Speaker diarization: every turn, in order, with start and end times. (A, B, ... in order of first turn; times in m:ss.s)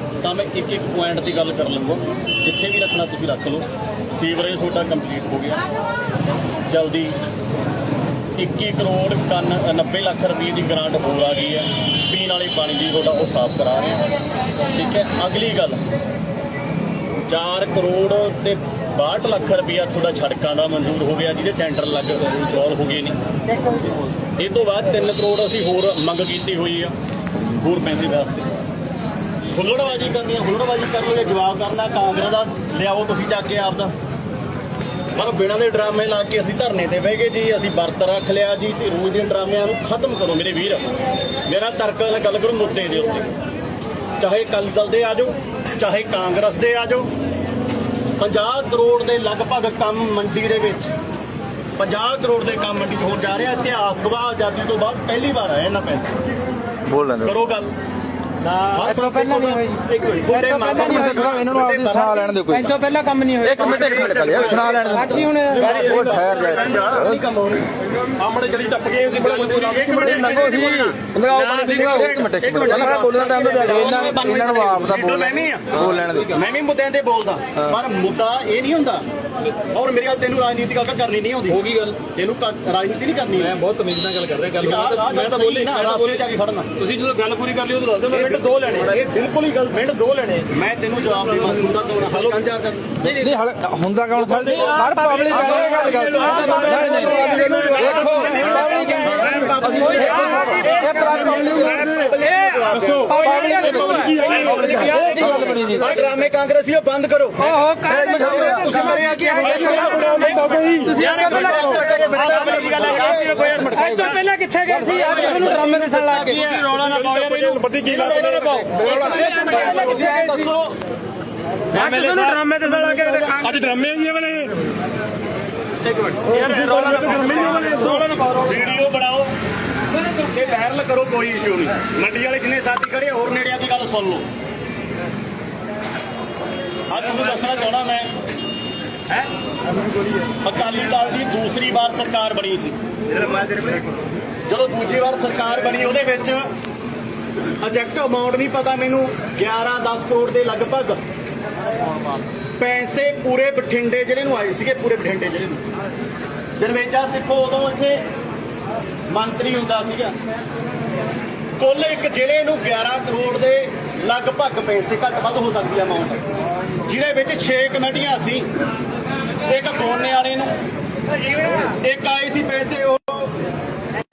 0:00.2-0:05.6 A
0:06.7-0:07.2 A
0:08.4-0:14.0 A
0:14.7-0:15.8 A
0:17.3-0:23.2 A
0:24.4-0:26.9 A
0:27.5-0:28.5 A
0:29.5-0:33.9 A
0:35.2-0:40.9 A
0:41.5-0:43.3 A
0:44.2-0:47.1 A
0:48.2-0:50.9 A
0:51.8-0:56.2 A
0:56.9-0:57.3 B
0:57.2-0:57.7 A
0:58.4-0:58.9 C
0:58.7-1:02.3 A
0:59.0-0:59.8 D
0:59.9-1:00.3 C
1:00.3-1:00.8 D
1:00.8-1:02.8 B
1:02.5-1:03.7 D
1:03.4-1:07.2 B
1:03.5-1:07.7 A
1:03.7-1:04.3 C
1:05.2-1:05.5 D
1:05.6-1:06.0 C
1:08.0-1:14.6 C
1:08.4-1:12.0 D
1:10.2-1:16.4 B
1:12.8-1:19.0 A
1:15.8-1:16.1 C
1:19.6-1:23.6 A
1:21.5-1:22.0 C
1:23.4-1:26.2 C
1:24.6-1:26.7 A
1:26.8-1:29.0 C
1:28.1-1:29.8 A
1:29.7-1:30.5 C
1:30.5-1:33.2 A
1:33.1-1:33.3 C
1:33.1-1:41.9 B
1:34.2-1:41.8 C
1:34.6-1:43.3 A
1:40.4-1:41.3 D
1:42.2-1:42.5 D
1:42.9-1:45.8 C
1:43.1-1:45.9 B
1:43.1-1:44.8 D
1:44.2-1:50.4 A
1:47.5-1:51.9 D
1:47.9-1:49.4 B
1:48.1-1:54.2 C
1:51.0-1:53.6 A
1:52.8-1:56.3 B
1:53.7-2:00.4 D
1:54.9-1:59.6 C
1:56.1-1:56.8 A
1:57.8-2:00.8 A
1:58.6-2:00.3 B
2:01.7-2:02.1 A
2:01.7-2:04.4 C
2:01.8-2:04.6 D
2:05.8-2:08.7 C
2:06.4-2:08.2 D
2:08.3-2:09.3 A
2:10.2-2:14.2 A
2:16.9-2:18.1 A
2:20.4-2:23.7 A
2:24.5-2:26.5 A
2:27.6-2:31.0 A
2:32.6-2:35.6 A
2:36.6-2:38.0 A
2:39.1-2:40.1 A
2:41.6-2:46.2 A
2:46.8-2:48.5 A
2:49.4-2:50.5 A
2:51.4-2:53.3 A